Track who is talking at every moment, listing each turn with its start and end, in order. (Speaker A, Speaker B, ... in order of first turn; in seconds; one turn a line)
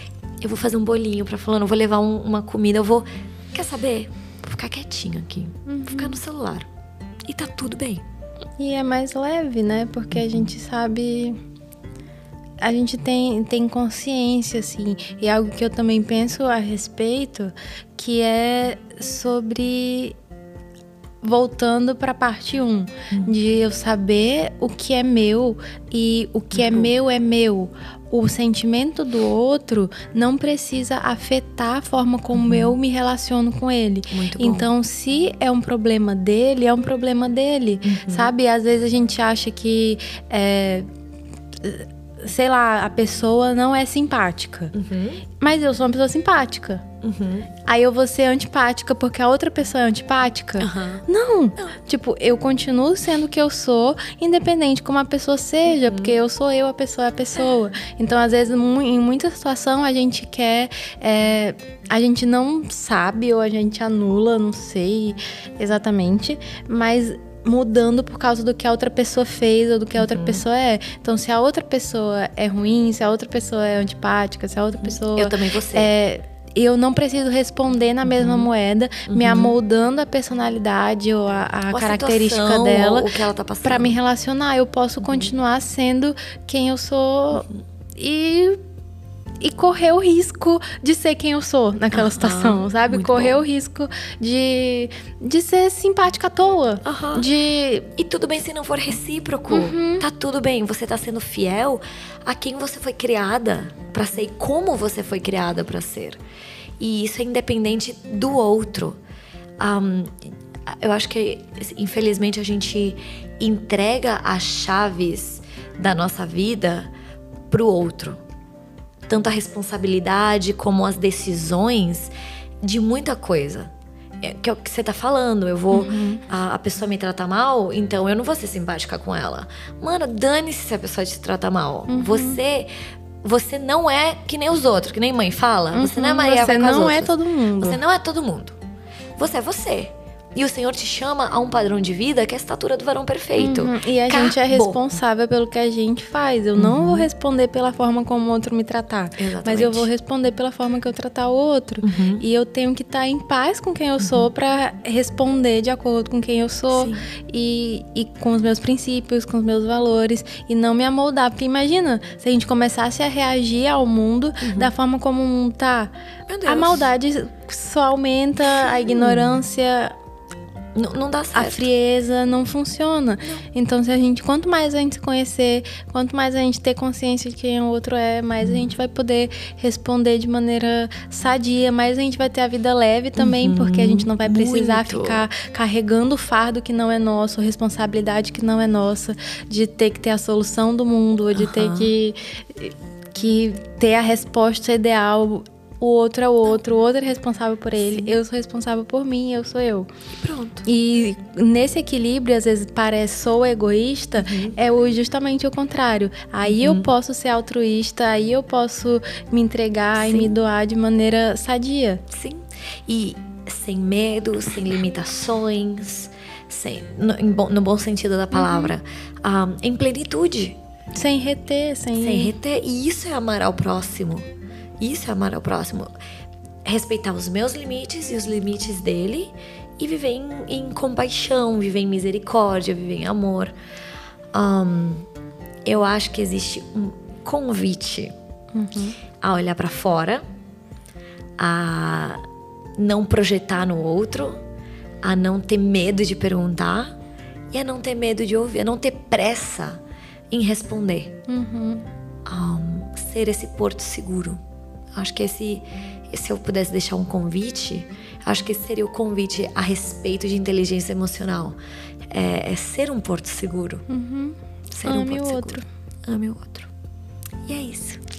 Speaker A: 0.4-6.7
Speaker B: 5.7-6.2
Speaker A: 7.3-8.0
Speaker B: 8.6-11.4
Speaker B: 12.6-20.1
Speaker B: 21.2-40.9
Speaker A: 26.5-26.9
Speaker A: 32.3-32.7
Speaker A: 34.1-34.7
Speaker A: 37.8-38.3
Speaker B: 41.6-44.7
Speaker A: 44.7-45.2
Speaker B: 45.4-46.8
Speaker A: 47.0-47.5
Speaker B: 47.6-83.1
Speaker A: 50.6-51.0
Speaker A: 55.6-56.1
Speaker A: 70.0-70.4
Speaker A: 74.8-75.9
Speaker A: 78.1-78.5
Speaker A: 79.1-79.6
Speaker A: 81.7-84.0
Speaker B: 83.6-88.6
Speaker B: 89.4-97.9
Speaker A: 91.9-93.4
Speaker A: 96.8-97.3
Speaker A: 98.0-106.2
Speaker B: 99.5-100.0
Speaker A: 106.8-109.0
Speaker A: 109.6-116.9
Speaker A: 117.5-118.2
Speaker A: 119.1-122.1
Speaker A: 122.6-132.7
Speaker B: 125.7-126.2
Speaker B: 131.9-132.4
Speaker A: 133.2-138.6
Speaker B: 135.7-137.8
Speaker A: 139.2-144.9
Speaker B: 143.4-165.9
Speaker A: 146.6-147.1
Speaker A: 149.2-149.9
Speaker A: 151.8-152.2
Speaker A: 154.0-154.3
Speaker A: 156.7-157.1
Speaker A: 164.4-164.7
Speaker A: 166.3-166.9
Speaker B: 166.4-169.9
Speaker A: 168.6-169.4
Speaker A: 170.8-171.7
Speaker B: 171.3-199.9
Speaker A: 178.4-178.7
Speaker A: 183.2-185.2
Speaker A: 191.3-191.9
Speaker A: 197.7-198.2
Speaker A: 200.2-200.7
Speaker B: 200.6-212.0
Speaker A: 204.2-204.6
Speaker A: 206.4-206.9
Speaker A: 210.0-210.3
Speaker A: 212.1-220.6
Speaker B: 218.3-218.7
Speaker B: 220.9-222.3
Speaker A: 222.0-224.3
Speaker A: 224.8-225.9
Speaker A: 226.6-233.5
Speaker A: 234.3-235.1
Speaker A: 235.6-238.1
Speaker B: 238.5-239.0
Speaker A: 239.2-240.2
Speaker A: 241.4-242.2
Speaker A: 242.8-244.4
Speaker A: 245.0-246.9
Speaker A: 247.5-251.2
Speaker B: 251.3-251.9
Speaker A: 252.3-254.4
Speaker A: 254.9-261.6
Speaker A: 262.1-263.9
Speaker B: 263.9-265.6
Speaker A: 264.7-266.7
Speaker A: 267.5-268.0